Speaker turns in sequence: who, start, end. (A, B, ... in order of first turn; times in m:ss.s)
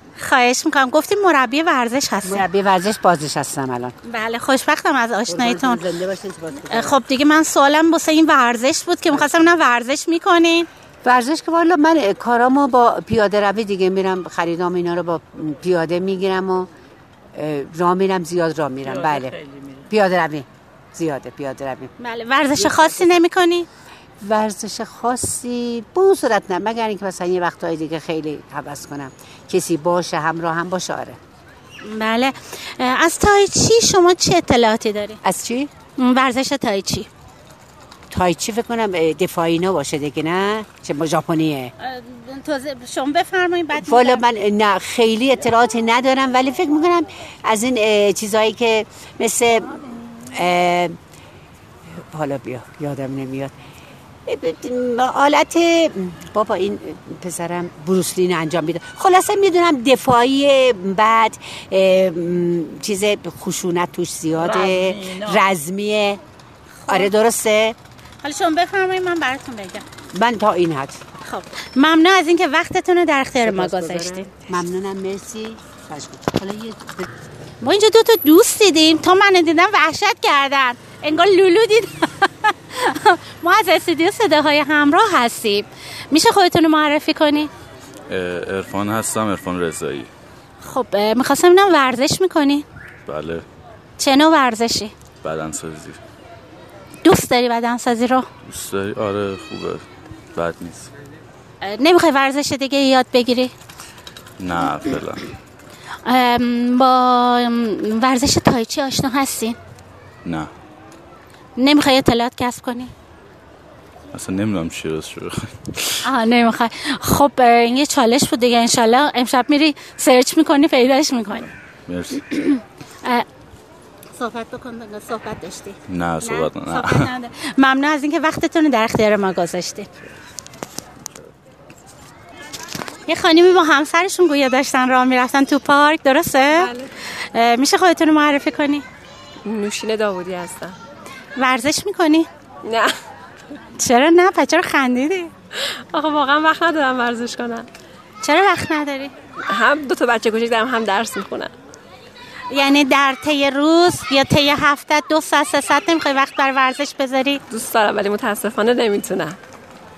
0:00.2-0:02.4 A
0:02.2-0:03.9 B
0:04.0-0:05.9 A
0:05.3-0:07.0 B
0:06.7-0:10.7 A
0:09.1-0:09.4 B
0:11.0-0:16.7 B
0:17.3-0:21.9 B
0:22.0-0:23.7 A
0:24.2-0:31.2 B
0:31.8-0:35.2 A
0:35.2-0:35.7 B
0:36.0-0:37.1 A
0:38.1-0:41.7 B
0:41.8-0:44.2 A
0:43.8-0:51.0 B
0:51.9-0:53.5 B
0:54.2-1:06.2 B
1:06.8-1:07.1 A
1:06.9-1:07.8 B
1:08.2-1:09.8 A
1:10.1-1:11.0 B
1:11.2-1:14.3 A
1:13.4-1:17.1 B
1:17.6-1:27.5 A
1:28.1-1:30.1 C
1:30.6-1:32.6 A
1:33.0-1:33.5 C
1:34.0-1:34.9 A
1:35.2-1:36.0 C
1:37.0-1:38.2 A
1:38.4-1:40.9 C
1:41.6-1:43.5 A
1:44.4-1:45.2 C
1:46.0-1:49.6 A
1:50.2-1:50.5 C
1:51.6-1:52.9 A
1:54.1-1:56.0 C
1:56.0-2:01.5 A
2:01.8-2:02.2 C
2:02.3-2:03.2 A
2:04.2-2:09.9 A
2:05.9-2:07.1 C
2:13.1-2:18.8 A
2:16.5-2:16.9 D
2:19.4-2:20.8 D
2:21.4-2:22.3 A
2:23.8-2:25.3 A
2:25.9-2:27.6 D
2:28.2-2:29.1 A
2:29.5-2:31.5 D
2:32.5-2:37.4 A
2:37.5-2:39.4 D